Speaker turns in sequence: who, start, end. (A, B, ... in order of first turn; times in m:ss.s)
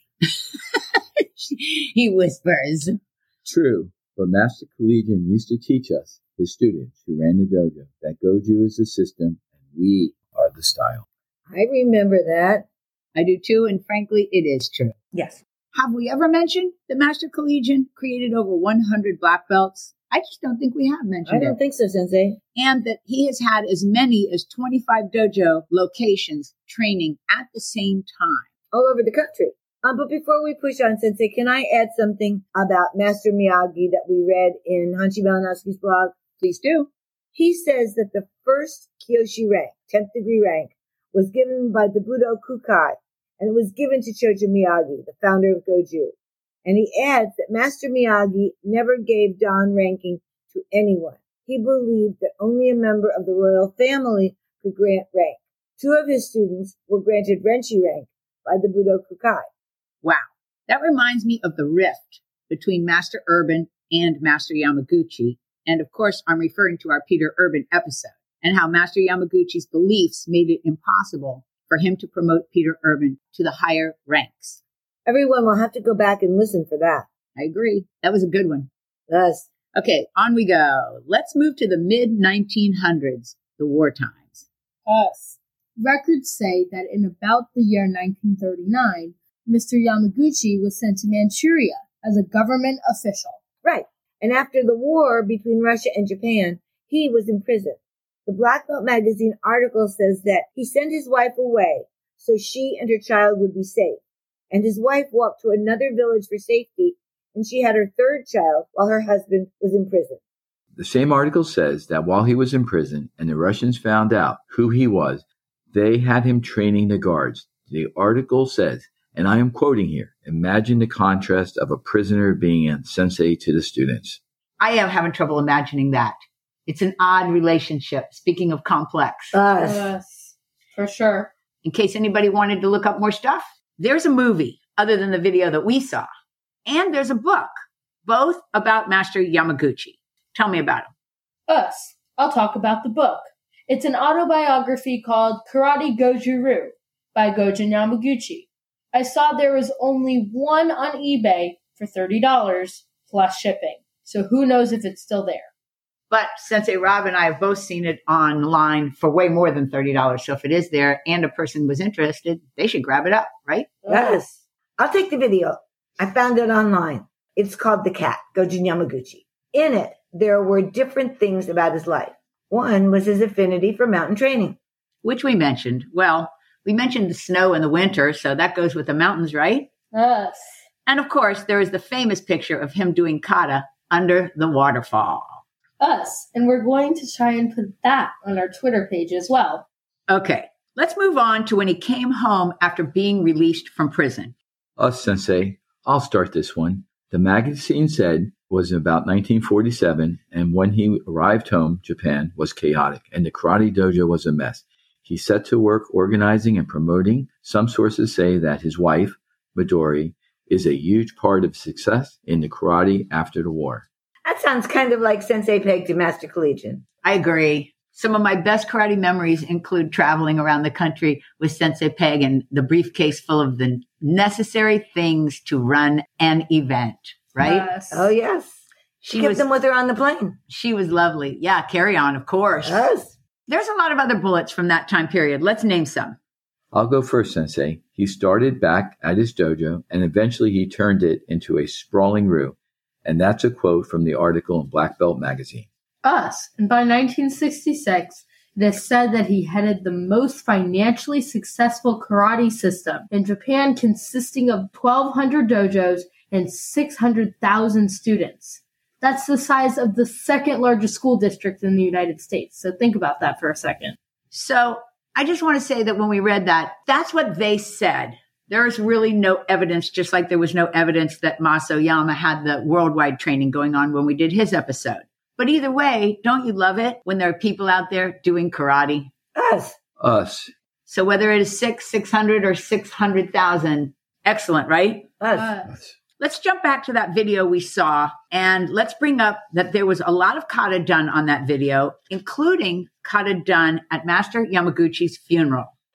0:00.6-0:03.0 A
0:03.4-0:11.0 B
0:11.5-0:12.6 C
0:13.2-0:15.0 A
0:15.1-0:15.4 C
0:15.7-0:21.6 A
0:21.2-0:22.4 C
0:22.6-0:28.5 A
0:28.7-0:36.2 C
0:36.4-0:36.9 A
0:37.3-0:59.5 C
1:00.0-1:14.6 A
1:15.1-1:17.1 C
1:17.4-1:18.7 A
1:19.1-1:19.5 C
1:19.8-1:24.5 A
1:24.9-1:33.4 D
1:33.6-1:44.0 C
1:44.5-1:50.2 C
1:50.8-2:04.2 B
2:04.6-2:09.4 A
2:09.3-2:09.9 C
2:09.6-2:11.3 D
2:11.6-2:16.1 A
2:16.7-2:17.5 A
2:18.0-2:20.9 A
2:21.5-2:35.5 D
2:36.1-2:43.7 A
2:43.8-2:44.2 D
2:43.9-2:54.6 C
2:55.0-2:59.7 A
2:59.9-3:00.6 D
3:00.9-3:05.4 A
3:05.8-3:09.7 D
3:10.1-3:14.4 A
3:14.8-3:33.8 B
3:34.2-3:36.8 C
3:37.0-3:47.7 A
3:47.4-3:48.1 D
3:47.9-3:50.4 C
3:49.1-3:49.5 A
3:50.5-3:52.9 A
3:52.6-3:53.1 C
3:53.5-3:56.2 A
3:56.7-4:05.7 B
4:06.0-4:24.0 D
4:24.3-4:39.1 A
4:39.4-4:39.8 C
4:40.0-4:40.5 B
4:40.9-4:45.1 A
4:45.2-4:45.5 C
4:45.3-4:45.7 D
4:45.7-4:46.0 B
4:46.2-4:55.7 A